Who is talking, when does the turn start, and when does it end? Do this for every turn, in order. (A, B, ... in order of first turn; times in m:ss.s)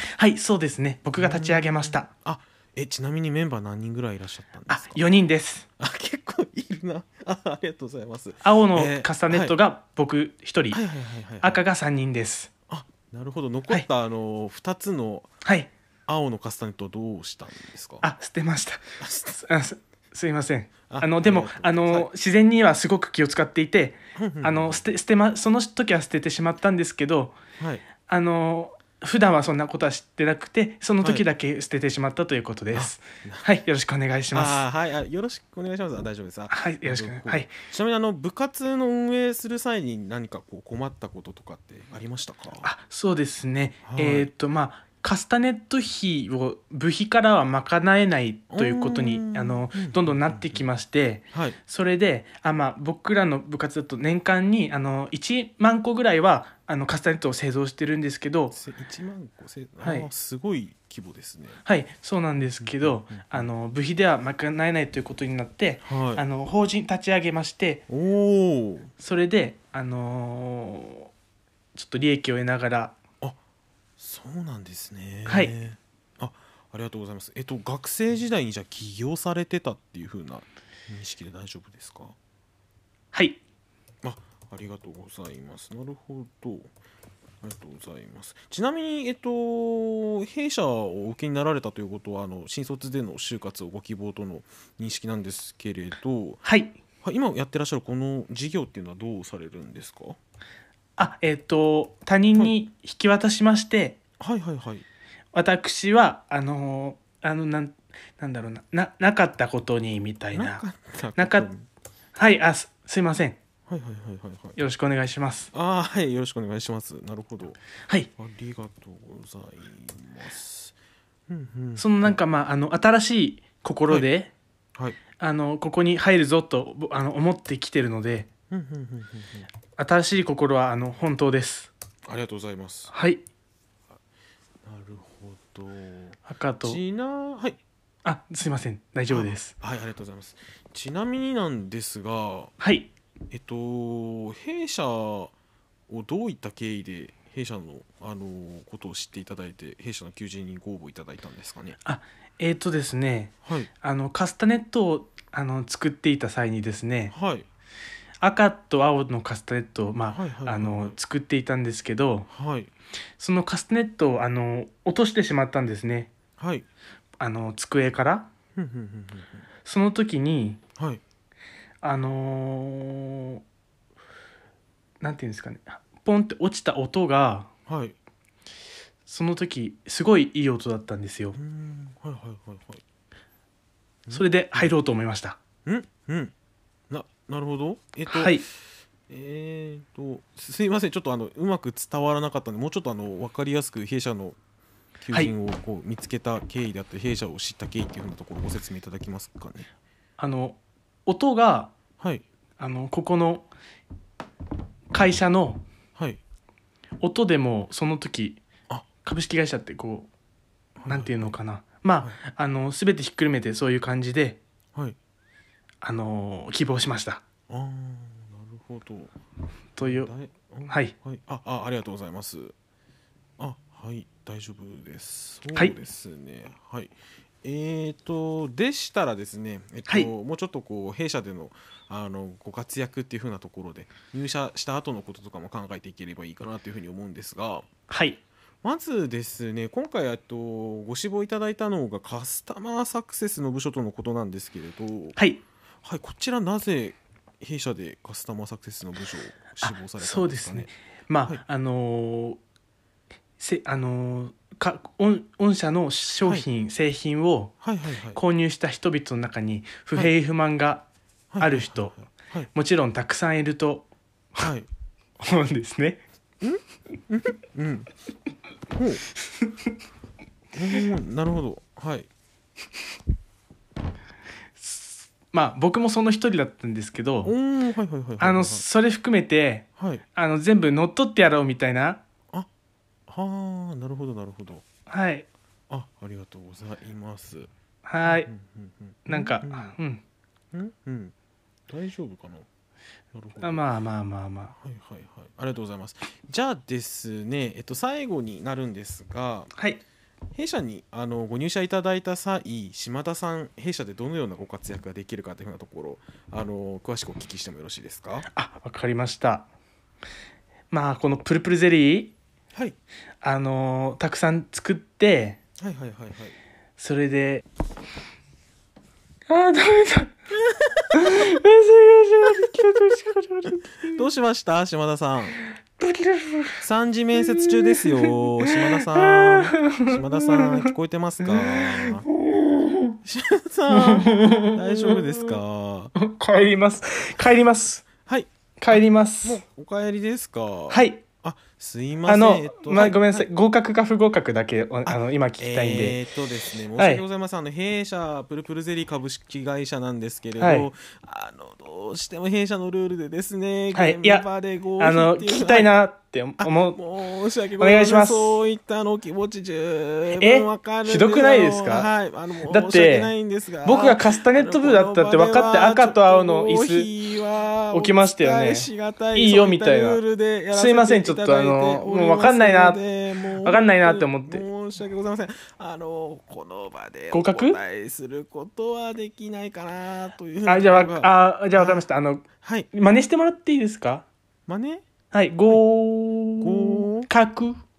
0:00.2-0:02.1 A
0:01.2-0:05.2 B
0:04.7-0:05.6 A
0:05.8-0:09.6 B
0:08.4-0:10.8 A
0:10.7-0:11.6 B
0:11.4-0:12.5 A
0:12.7-0:15.3 B
0:15.4-0:15.7 A
0:16.1-0:18.0 B
0:18.0-0:18.8 A
0:19.0-0:19.5 B
0:19.4-0:27.3 A
0:20.9-0:22.1 B
0:24.2-0:24.9 B
0:27.6-0:27.8 B
0:28.0-0:34.6 A
0:32.7-0:33.4 B
0:34.3-0:42.7 B
0:36.5-0:37.5 A
0:42.6-0:58.6 A
0:43.8-0:44.3 B
0:48.5-0:50.7 B
0:51.3-0:51.6 B
0:58.5-1:01.6 B
0:59.8-1:00.1 A
1:01.6-1:07.8 A
1:02.4-1:03.5 B
1:05.8-1:06.2 B
1:07.9-1:08.9 B
1:09.0-1:11.1 A
1:11.7-1:12.9 A
1:14.0-1:22.2 B
1:15.3-1:15.5 A
1:23.1-1:23.4 A
1:24.0-1:26.7 B
1:27.4-1:36.4 B
1:36.4-1:36.7 A
1:37.0-1:40.2 B
1:41.0-1:44.0 A
1:44.2-1:44.8 B
1:45.3-1:50.6 A
1:50.3-1:51.6 B
1:51.2-1:51.5 A
1:52.2-1:53.4 A
1:53.7-1:54.6 B
1:54.6-1:55.5 A
1:55.5-1:57.6 B
1:58.2-2:00.7 B
2:01.3-2:02.2 B
2:01.8-2:04.3 A
2:05.2-2:08.3 A
2:08.5-2:09.5 B
2:09.8-2:11.7 A
2:12.1-2:12.9 B
2:12.9-2:13.2 A
2:14.6-2:17.6 B
2:16.3-2:16.8 A
2:18.0-2:19.5 A
2:19.1-2:22.5 B
2:22.6-2:22.9 A
2:23.3-2:25.3 B
2:25.9-2:31.8 B
2:31.8-2:37.1 A
2:37.1-2:37.4 B
2:38.2-2:42.3 A
2:40.1-2:41.0 B
2:42.3-2:42.7 B
2:43.2-2:46.1 A
2:46.4-2:46.6 B
2:47.2-2:48.3 A
2:48.6-2:49.4 B
2:49.6-2:50.6 A
2:50.8-2:51.0 B
2:51.8-2:53.4 A
2:55.0-2:57.5 A
2:57.7-2:57.9 B
2:59.1-3:01.4 A
3:01.4-3:02.8 B
3:04.0-3:04.7 B
3:04.1-3:05.4 A
3:05.6-3:06.3 B
3:06.9-3:08.4 B
3:08.1-3:08.4 A
3:09.1-3:14.4 B
3:15.0-3:19.7 B
3:20.2-3:21.7 A
3:22.6-3:23.5 A
3:24.9-3:25.6 A
3:26.0-3:26.2 B
3:27.0-3:28.4 A
3:29.0-3:30.1 A
3:30.8-3:31.3 B
3:30.9-3:34.4 A
3:35.8-3:37.2 A
3:37.5-3:39.1 B
3:39.8-3:40.1 A
3:39.8-3:42.5 B
3:43.4-3:57.7 B
3:57.9-3:58.2 A
3:58.6-4:05.2 B
4:05.2-4:05.4 A
4:05.8-4:10.7 B
4:09.6-4:12.4 A
4:13.4-4:17.6 A
4:17.6-4:18.2 B
4:18.1-4:20.8 A
4:21.3-4:22.5 B
4:21.4-4:22.0 A
4:22.5-4:24.5 A
4:24.4-4:24.7 B
4:25.2-4:26.0 A
4:26.4-4:27.9 B
4:28.7-4:29.0 B
4:30.5-4:32.1 B
4:34.6-4:37.3 A
4:37.2-4:38.6 B
4:38.2-4:42.0 A
4:39.8-4:40.0 B
4:43.1-4:44.6 B
4:44.9-4:45.2 A
4:45.7-4:47.5 B
4:47.8-4:48.3 A
4:48.0-4:49.8 B
4:49.0-4:50.0 A
4:50.5-4:51.1 B
4:51.7-4:52.5 B
4:53.1-4:53.6 B
4:53.4-4:54.5 A
4:54.6-4:59.5 B
4:59.5-4:59.8 A
5:00.3-5:08.3 B
5:08.3-5:09.4 A
5:10.7-5:12.1 A
5:13.2-5:15.4 A
5:15.6-5:16.4 B
5:16.8-5:17.4 A
5:19.3-5:20.1 A
5:20.9-5:24.0 A
5:23.8-5:25.4 B
5:25.8-5:26.6 A
5:26.6-5:32.1 B
5:27.2-5:30.7 A
5:31.6-5:32.9 A
5:33.0-5:35.9 B
5:33.7-5:35.3 A
5:36.0-5:37.8 A
5:38.0-5:43.2 B
5:38.6-5:39.4 A
5:40.7-5:41.0 A
5:42.1-5:46.0 A
5:44.8-5:55.7 B
5:46.8-5:47.0 A
5:50.4-5:50.7 A
5:53.7-5:54.2 A
5:54.8-5:56.8 A
5:56.4-6:21.8 B
5:57.6-5:58.4 A
6:00.1-6:01.9 A
6:02.4-6:03.1 A
6:03.6-6:06.9 A
6:07.7-6:10.0 A
6:10.5-6:12.8 A
6:13.4-6:14.4 A
6:17.1-6:17.6 A
6:20.4-6:24.0 A
6:22.4-6:22.7 B
6:24.5-6:24.8 B
6:25.1-6:27.6 A
6:26.4-6:27.1 B